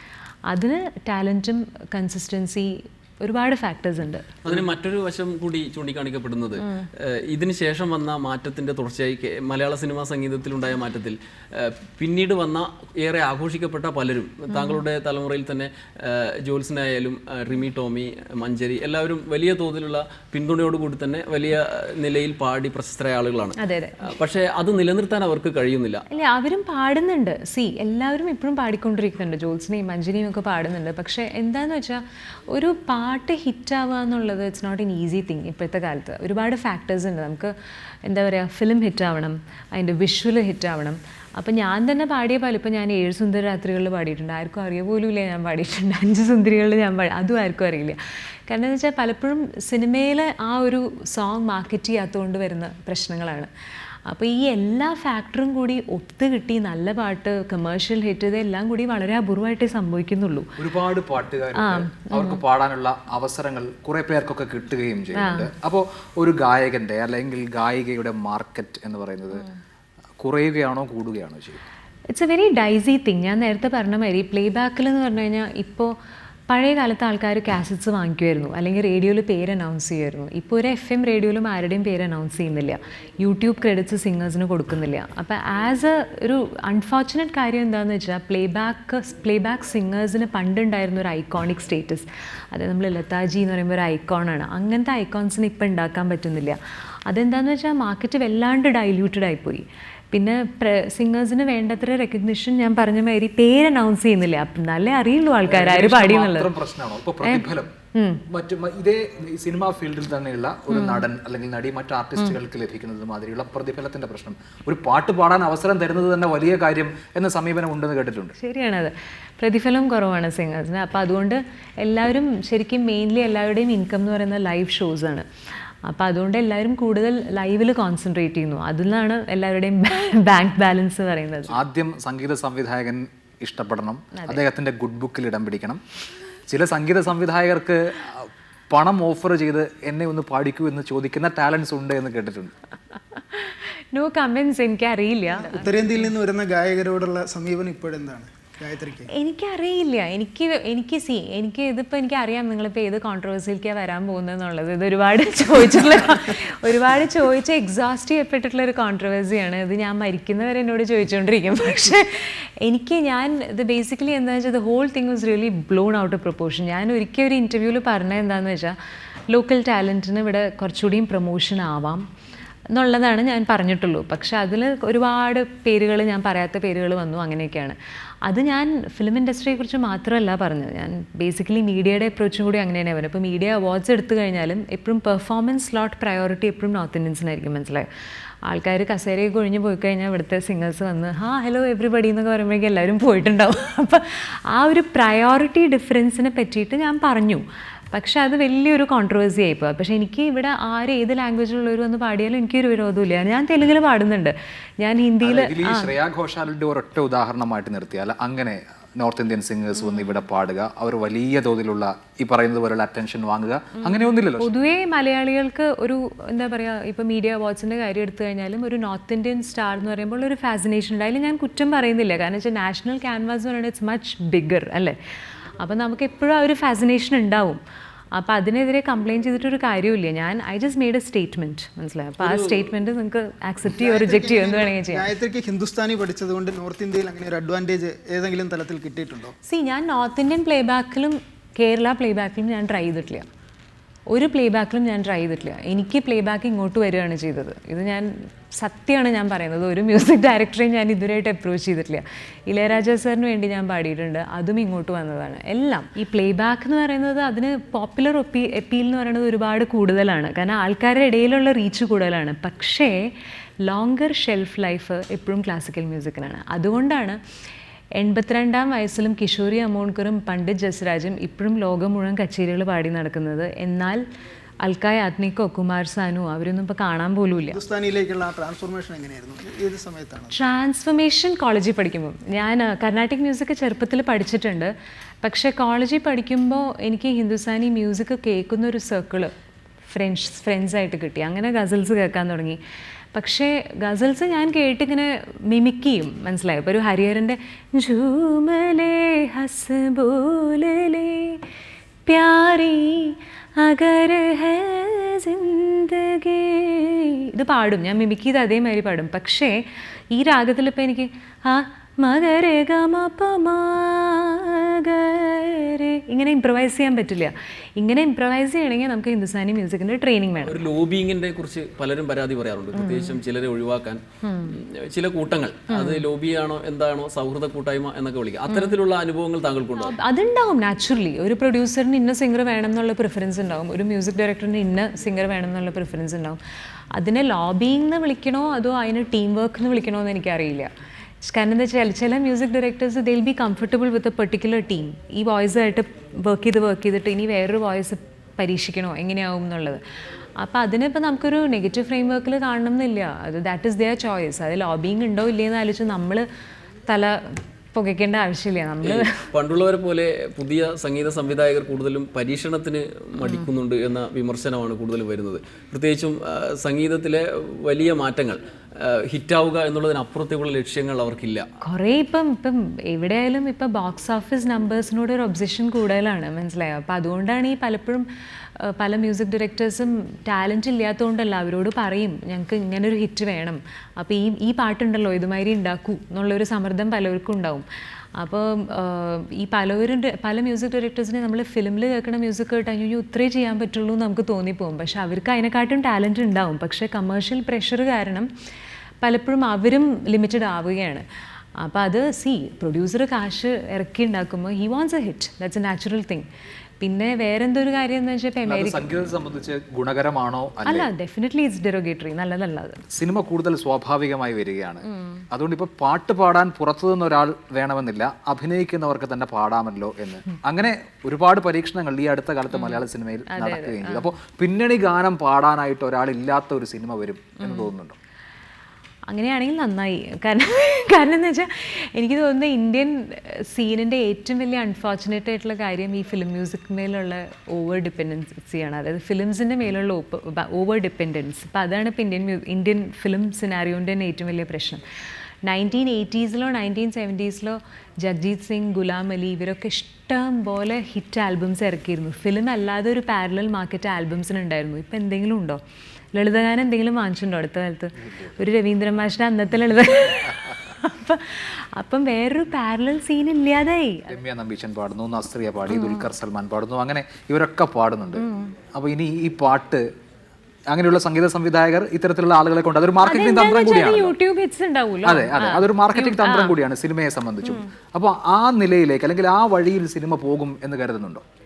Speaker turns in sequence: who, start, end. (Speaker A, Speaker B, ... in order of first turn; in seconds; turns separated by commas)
Speaker A: 0.5-4.5, Speaker B: 4.5-26.1, Speaker A: 14.5-14.8, Speaker A: 23.6-24.1, Speaker A: 26.1-60.6, Speaker C: 60.6-69.5, Speaker A: 61.6-62.4, Speaker A: 65.2-65.5, Speaker C: 70.2-71.6, Speaker A: 72.1-76.0, Speaker A: 76.5-106.5, Speaker C: 105.5-107.7, Speaker A: 107.2-108.2, Speaker C: 108.3-118.3, Speaker A: 110.7-111.1, Speaker A: 118.4-131.6, Speaker C: 131.5-135.8, Speaker A: 134.1-134.4, Speaker C: 136.5-142.5, Speaker A: 143.2-145.8, Speaker D: 145.4-149.1, Speaker A: 149.1-168.8, Speaker A: 169.3-172.1, Speaker A: 172.7-187.9, Speaker A: 188.4-205.9, Speaker C: 205.2-214.5, Speaker A: 214.4-225.0, Speaker A: 225.6-227.6, Speaker A: 228.1-235.1, Speaker B: 232.2-232.7, Speaker D: 233.7-239.3, Speaker A: 239.4-243.3, Speaker A: 244.1-263.1, Speaker A: 263.6-267.2, Speaker A: 268.0-274.0, Speaker A: 274.6-277.6, Speaker D: 277.5-280.3, Speaker A: 280.3-289.3, Speaker A: 289.9-292.6, Speaker A: 293.1-301.4, Speaker A: 302.1-320.7, Speaker B: 320.4-329.9, Speaker A: 322.8-323.2, Speaker A: 324.2-324.6, Speaker A: 325.7-326.0, Speaker A: 328.5-328.8, Speaker A: 329.8-336.4, Speaker A: 336.9-340.7, Speaker A: 341.2-349.8, Speaker A: 350.4-356.2, Speaker A: 356.9-359.3, Speaker B: 358.8-371.5, Speaker A: 363.2-363.5, Speaker A: 371.6-398.3, Speaker A: 399.0-401.1, Speaker A: 401.6-406.3, Speaker A: 406.8-408.9, Speaker C: 408.5-410.9, Speaker A: 410.6-412.8, Speaker C: 412.9-428.0, Speaker A: 414.9-415.2, Speaker A: 423.3-424.1, Speaker A: 427.4-427.7, Speaker A: 429.1-444.8, Speaker A: 445.4-455.6, Speaker A: 456.1-464.1, Speaker C: 464.1-469.9, Speaker A: 465.7-466.1, Speaker A: 468.2-468.6, Speaker C: 470.7-474.1, Speaker A: 473.0-476.6, Speaker C: 475.1-481.2